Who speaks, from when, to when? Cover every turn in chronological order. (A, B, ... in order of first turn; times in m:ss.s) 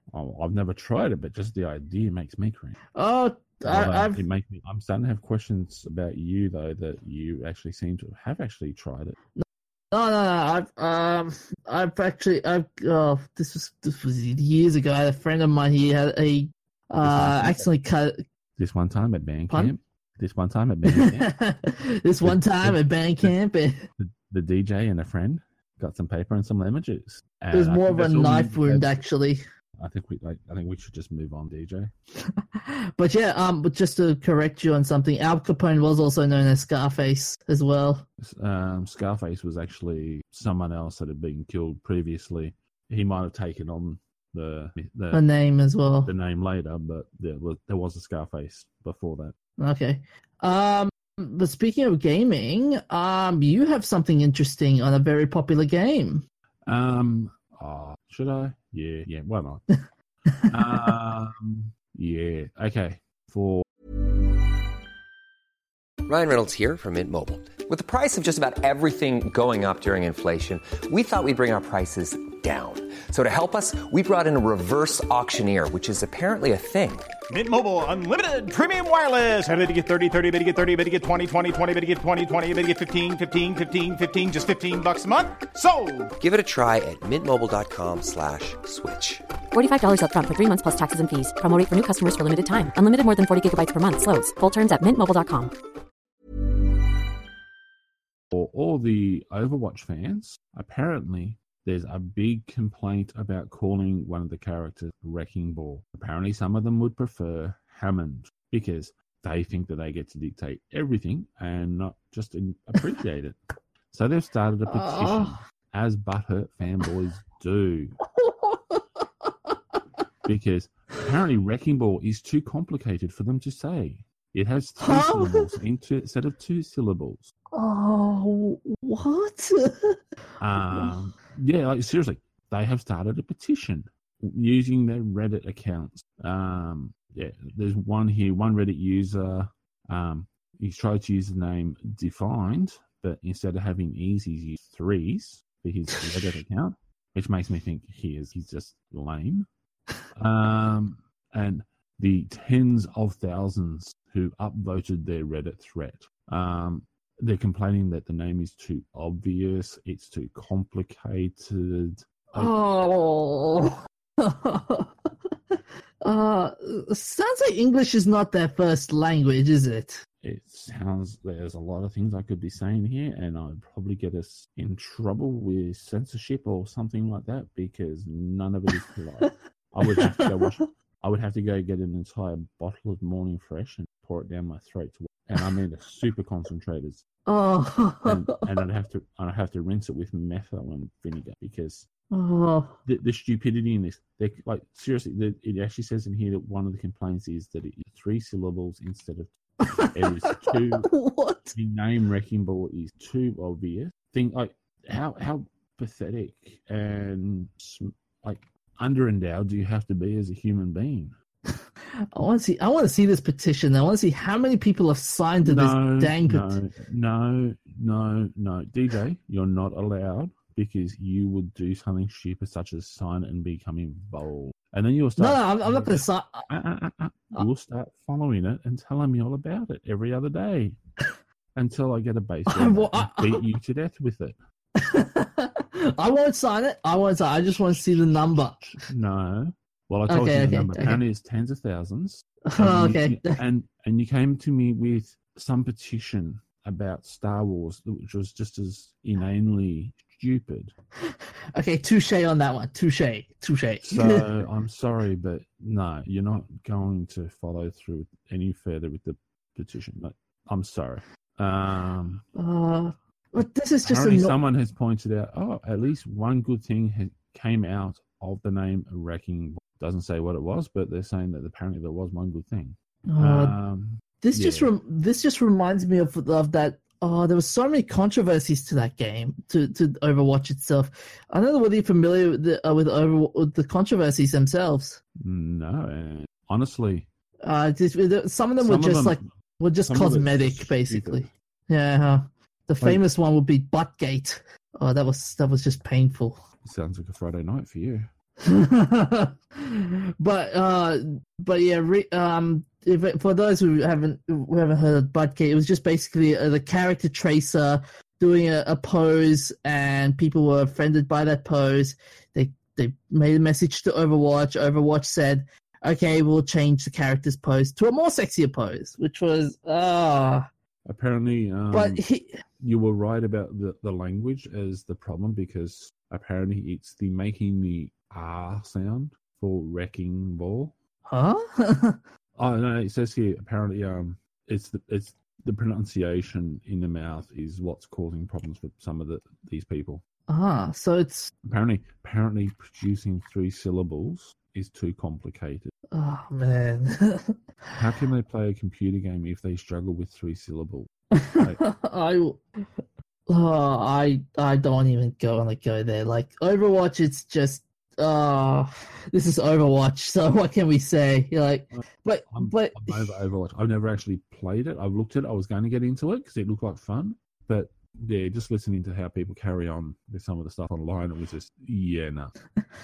0:00.1-0:02.8 A
0:03.0-0:04.2 B
0:03.6-0:09.2 A
0:09.4-0:18.2 B
0:17.0-0:17.7 A
0:18.6-0:21.3 A
0:20.8-0:23.8 B
0:22.2-0:23.4 A
0:24.0-0:29.0 A
0:27.5-0:29.4 B
0:29.8-0:31.9 A
0:32.6-0:38.1 B
0:38.2-0:45.2 A
0:45.1-0:46.1 B
0:46.0-0:49.4 A
0:49.6-0:56.2 B
0:56.7-0:59.6 A
1:00.3-1:00.9 B
1:00.5-1:03.6 A
1:06.1-1:17.1 C
1:17.3-1:26.1 D
1:26.2-1:29.2 C
1:29.5-1:35.5 E
1:38.3-1:53.4 A
1:53.9-1:58.0 A
1:54.7-1:55.4 B
1:58.1-1:59.5 B
2:00.2-2:07.3 A
2:04.8-2:05.5 B
2:07.5-2:10.0 B
2:10.4-2:29.5 A
2:26.0-2:26.3 B
2:30.1-2:42.5 A
2:42.4-2:44.9 B
2:46.0-2:50.0 B
2:50.2-3:07.0 A
3:00.0-3:00.5 B
3:07.3-3:08.4 B
3:08.1-3:11.9 A
3:12.1-3:12.8 B
3:12.9-3:19.3 A
3:19.7-3:21.6 B
3:19.9-3:20.9 A
3:21.5-3:31.1 A
3:32.1-3:36.6 B
3:35.4-3:50.8 A
3:45.2-3:46.5 B
3:51.6-3:54.4 A
3:52.5-3:53.4 B
3:54.8-3:58.6 B
3:57.4-4:10.7 A
4:00.1-4:01.0 B
4:02.5-4:03.4 B
4:11.1-4:14.3 B
4:13.8-4:22.2 A
4:22.4-4:24.4 B
4:23.8-4:34.7 A
4:33.1-4:33.6 B
4:34.2-4:45.0 B
4:45.2-4:47.1 A
4:47.4-4:56.4 B
4:48.6-4:49.3 A
4:49.9-4:51.3 A
4:56.6-4:58.1 A
4:58.4-5:20.5 B
5:20.8-5:22.0 A
5:21.7-5:22.4 B
5:22.6-5:30.7 A
5:31.1-5:32.0 B
5:32.4-5:40.0 A
5:40.3-5:41.3 B
5:41.4-5:45.7 A
5:45.9-5:47.3 B
5:47.8-5:51.6 A
5:51.2-5:52.6 B
5:53.3-6:03.2 B
6:01.7-6:12.3 A